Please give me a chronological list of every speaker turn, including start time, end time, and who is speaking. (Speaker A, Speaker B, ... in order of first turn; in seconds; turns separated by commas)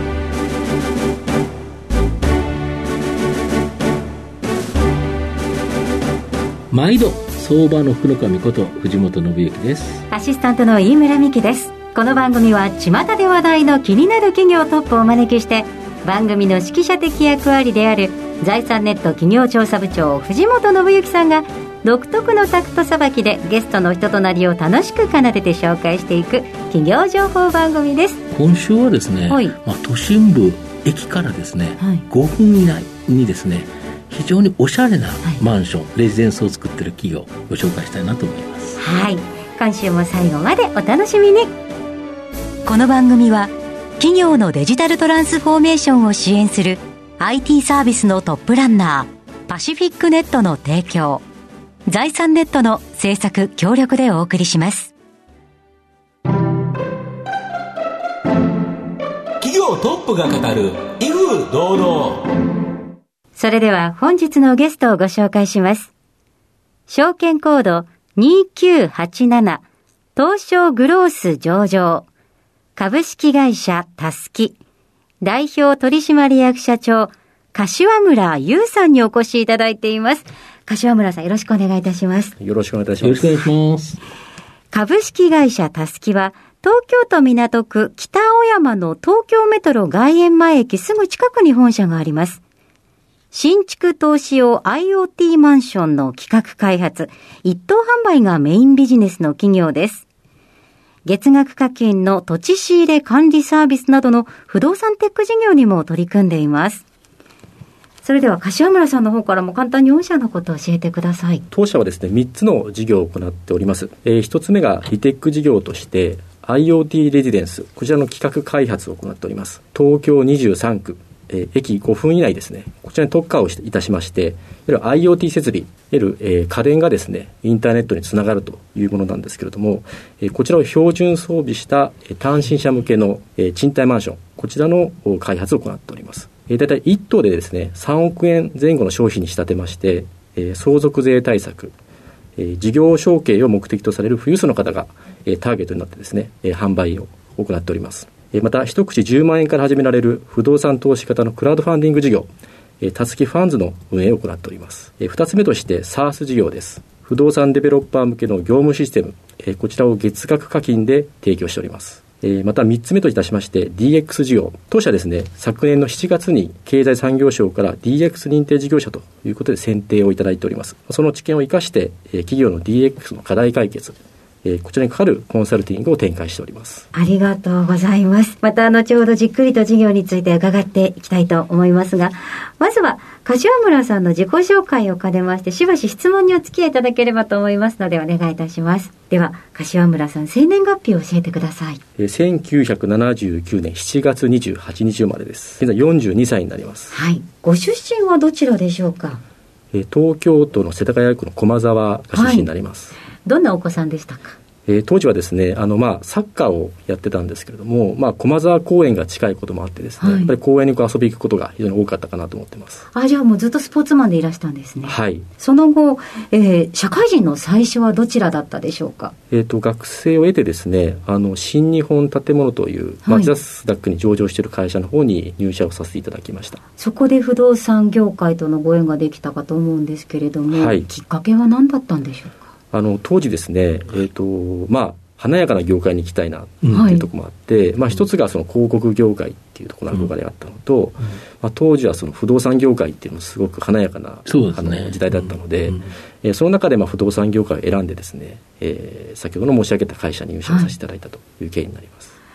Speaker A: 6.7-10.1, Speaker B: 10.1-28.2, Speaker A: 28.3-38.8, Speaker B: 29.3-29.6, Speaker B: 38.8-41.5, Speaker B: 42.6-51.2, Speaker B: 51.9-54.9, Speaker C: 59.4-62.3, Speaker B: 63.3-65.9, Speaker B: 66.9-69.6, Speaker B: 70.2-72.1, Speaker B: 72.8-74.6, Speaker B: 75.2-82.3, Speaker D: 82.4-83.4, Speaker A: 83.0-84.0, Speaker B: 84.7-92.4, Speaker B: 93.3-100.0, Speaker B: 101.0-106.8, Speaker B: 108.0-111.4, Speaker D: 111.5-141.7, Speaker D: 142.4-152.3, Speaker D: 152.8-176.9, Speaker B: 176.9-191.8, Speaker D: 192.0-196.9, Speaker B: 196.9-199.2, Speaker D: 199.7-202.9, Speaker B: 202.1-202.5, Speaker B: 203.2-204.3, Speaker D: 204.7-212.8, Speaker B: 210.0-210.3, Speaker B: 212.9-219.1, Speaker D: 214.8-215.3, Speaker D: 219.3-226.6, Speaker B: 223.0-223.3, Speaker B: 226.8-232.4, Speaker D: 230.5-230.9, Speaker D: 232.7-252.2, Speaker B: 236.7-237.1, Speaker A: 244.2-245.9, Speaker B: 250.5-250.7